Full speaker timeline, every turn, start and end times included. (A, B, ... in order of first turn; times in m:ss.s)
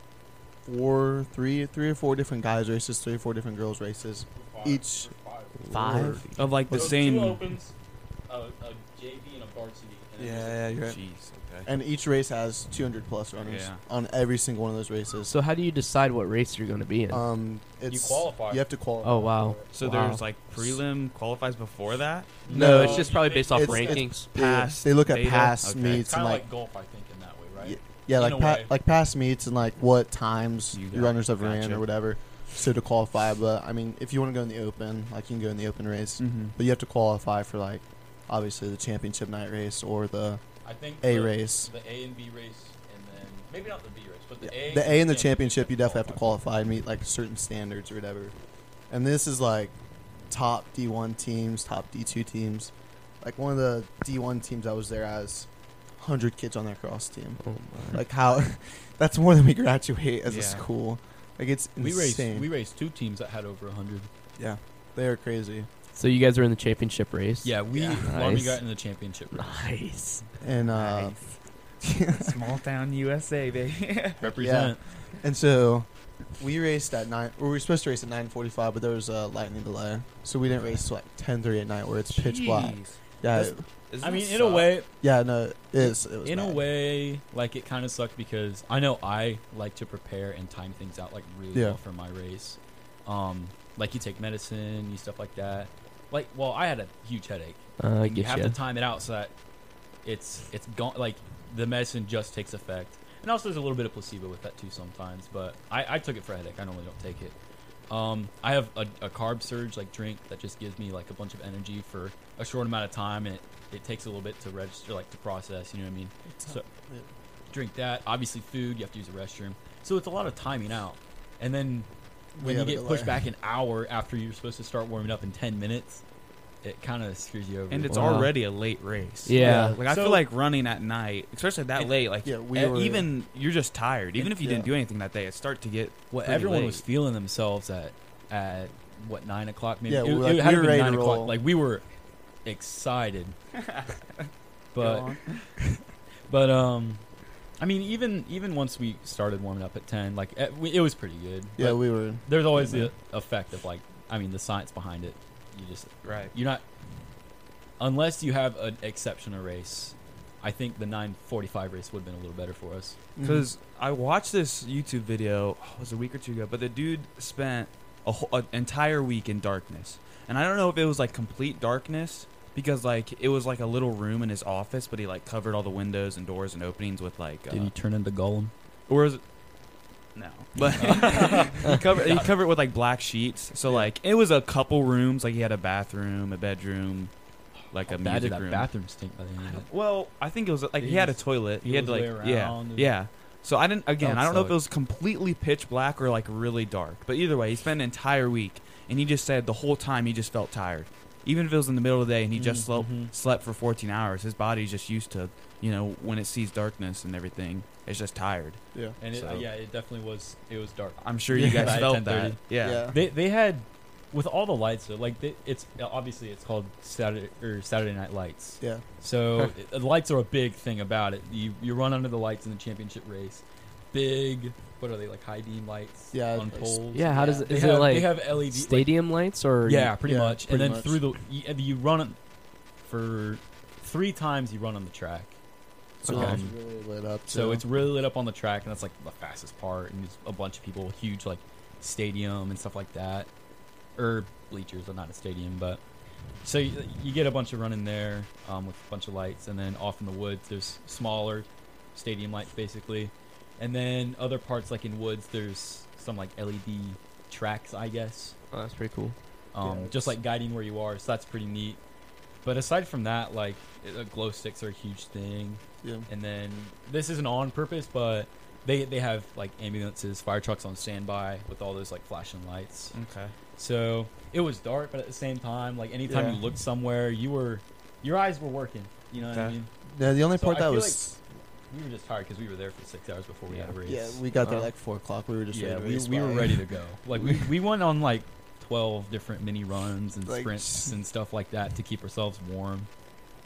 0:00.6-0:05.1 A
0:04.3-0:05.7 B
0:05.6-0:06.3 C
0:05.7-0:06.9 A
0:05.7-0:07.4 D
0:06.7-0:07.7 B
0:08.3-0:10.8 B
0:10.2-0:11.0 A
0:10.8-0:11.7 D
0:11.6-0:15.3 A
0:13.4-0:13.8 D
0:15.2-0:17.2 C
0:17.1-0:19.6 A
0:17.9-0:18.6 B
0:19.0-0:20.8 C
0:19.7-0:22.4 D
0:22.4-0:24.0 B
0:22.5-0:24.2 C
0:22.5-0:26.4 A
0:24.1-0:26.0 D
0:25.8-0:28.7 B
0:27.6-0:40.4 A
0:30.7-0:31.8 D
0:36.2-0:36.5 D
0:40.6-0:46.3 B
0:41.0-0:41.7 A
0:44.4-0:48.3 A
0:48.9-0:49.7 A
0:50.3-1:02.5 A
0:57.4-0:58.0 C
1:00.3-1:00.6 D
1:01.8-1:04.1 B
1:04.4-1:05.7 A
1:05.9-1:08.6 C
1:07.4-1:09.7 B
1:07.8-1:08.0 A
1:09.3-1:10.2 C
1:10.4-1:11.2 A
1:10.6-1:11.3 D
1:11.8-1:12.4 A
1:12.1-1:14.2 D
1:14.2-1:15.0 B
1:14.4-1:23.6 A
1:22.1-1:24.7 D
1:24.0-1:24.9 B
1:25.0-1:26.6 A
1:25.8-1:39.3 B
1:31.5-1:31.8 A
1:37.8-1:38.6 C
1:40.0-1:47.3 B
1:47.9-1:56.6 B
1:56.3-1:57.1 A
1:57.5-2:06.0 B
2:02.4-2:03.2 A
2:06.6-2:08.2 B
2:07.7-2:16.8 D
2:07.9-2:08.3 C
2:09.2-2:09.8 C
2:09.4-2:09.8 A
2:09.8-2:10.2 B
2:12.2-2:13.1 A
2:14.2-2:14.7 A
2:16.1-2:21.8 B
2:19.9-2:21.3 A
2:22.4-2:23.3 B
2:23.6-2:24.3 D
2:24.7-2:25.1 B
2:24.8-2:25.5 D
2:26.3-2:27.0 B
2:27.6-2:36.6 B
2:31.6-2:32.9 A
2:36.0-2:36.3 D
2:37.8-2:43.0 B
2:43.2-2:43.5 A
2:43.2-2:57.7 D
2:57.5-2:58.5 B
2:58.9-2:59.2 D
3:00.1-3:07.1 D
3:00.8-3:02.3 B
3:03.6-3:03.9 A
3:07.7-3:08.7 D
3:07.8-3:09.7 B
3:09.4-3:29.4 D
3:10.8-3:12.9 B
3:14.0-3:14.6 B
3:22.3-3:23.1 B
3:29.0-3:48.9 B
3:31.0-3:32.9 D
3:31.3-3:31.9 A
3:32.6-3:33.0 A
3:46.1-3:47.5 A
3:46.9-3:49.9 C
3:49.6-3:52.2 B
3:50.0-3:51.0 A
3:52.8-3:55.3 B
3:56.0-3:57.6 A
3:56.0-3:56.5 B
3:57.3-4:03.3 B
4:04.0-4:05.8 B
4:06.4-4:18.4 B
4:18.5-4:19.1 C
4:19.5-4:21.8 B
4:19.6-4:20.2 A
4:22.4-4:33.0 B
4:25.8-4:26.1 A
4:32.9-4:33.3 D
4:33.6-4:39.7 B
4:36.1-4:36.4 A
4:39.3-4:39.6 D
4:39.9-4:41.2 A
4:40.3-4:41.1 B
4:41.7-4:44.2 B
4:43.8-4:46.6 A
4:45.5-4:52.9 B
4:50.2-4:50.9 A